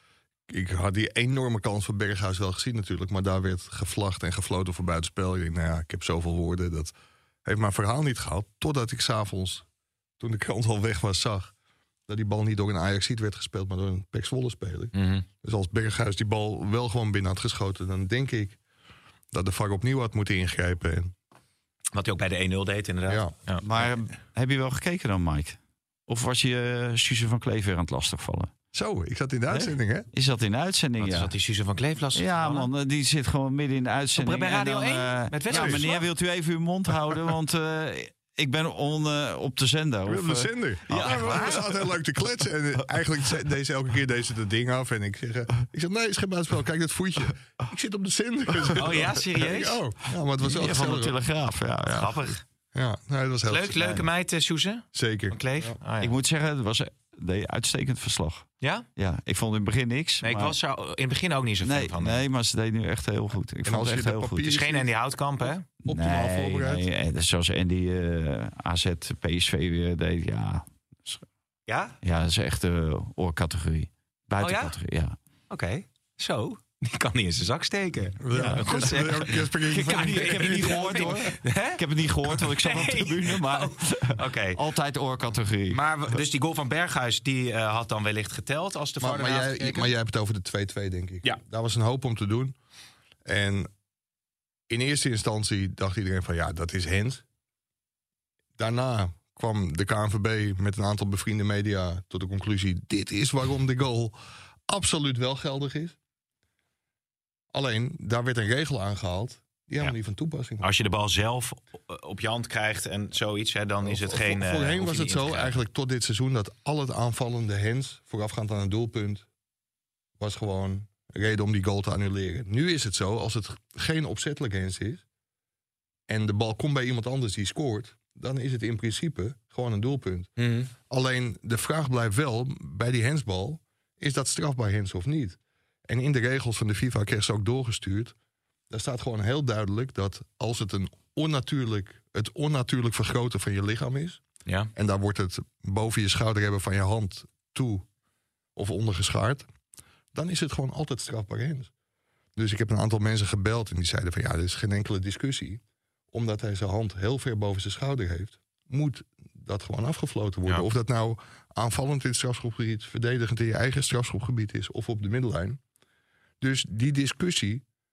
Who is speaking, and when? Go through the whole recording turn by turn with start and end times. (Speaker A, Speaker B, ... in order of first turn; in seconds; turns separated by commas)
Speaker A: 0.5-9.6, Speaker A: 10.2-11.5, Speaker A: 12.1-18.6, Speaker B: 14.9-15.2, Speaker A: 19.3-21.1, Speaker B: 21.9-23.6, Speaker A: 23.1-23.3, Speaker C: 23.6-28.5, Speaker A: 28.7-30.1, Speaker C: 29.5-31.3, Speaker B: 31.0-32.7, Speaker C: 32.1-41.7, Speaker B: 34.1-36.0, Speaker A: 35.5-35.9, Speaker A: 40.0-51.1, Speaker B: 40.9-41.6, Speaker B: 48.7-49.8, Speaker C: 50.4-52.4, Speaker B: 51.9-52.4, Speaker A: 52.7-54.0, Speaker B: 53.5-56.1, Speaker A: 54.9-55.8, Speaker C: 56.0-60.5, Speaker B: 60.2-62.2, Speaker C: 61.6-64.6, Speaker A: 63.6-64.9, Speaker B: 64.4-65.6, Speaker A: 65.7-66.8, Speaker C: 65.9-71.2, Speaker B: 71.7-72.0, Speaker C: 72.0-75.2, Speaker B: 74.4-74.8, Speaker B: 75.5-84.6, Speaker A: 78.2-81.1, Speaker C: 78.3-86.2, Speaker B: 85.7-89.9, Speaker A: 89.0-92.5, Speaker A: 93.2-93.7, Speaker A: 94.7-97.2, Speaker A: 98.6-104.1, Speaker A: 104.7-106.0, Speaker A: 107.5-110.7, Speaker B: 110.6-115.6, Speaker A: 113.8-119.2, Speaker A: 120.2-125.0, Speaker A: 126.1-130.3, Speaker B: 130.4-130.7, Speaker A: 130.9-138.1, Speaker A: 138.7-144.2, Speaker A: 144.7-147.8, Speaker A: 148.6-149.4, Speaker A: 150.1-151.7, Speaker A: 152.3-165.6, Speaker A: 166.4-167.6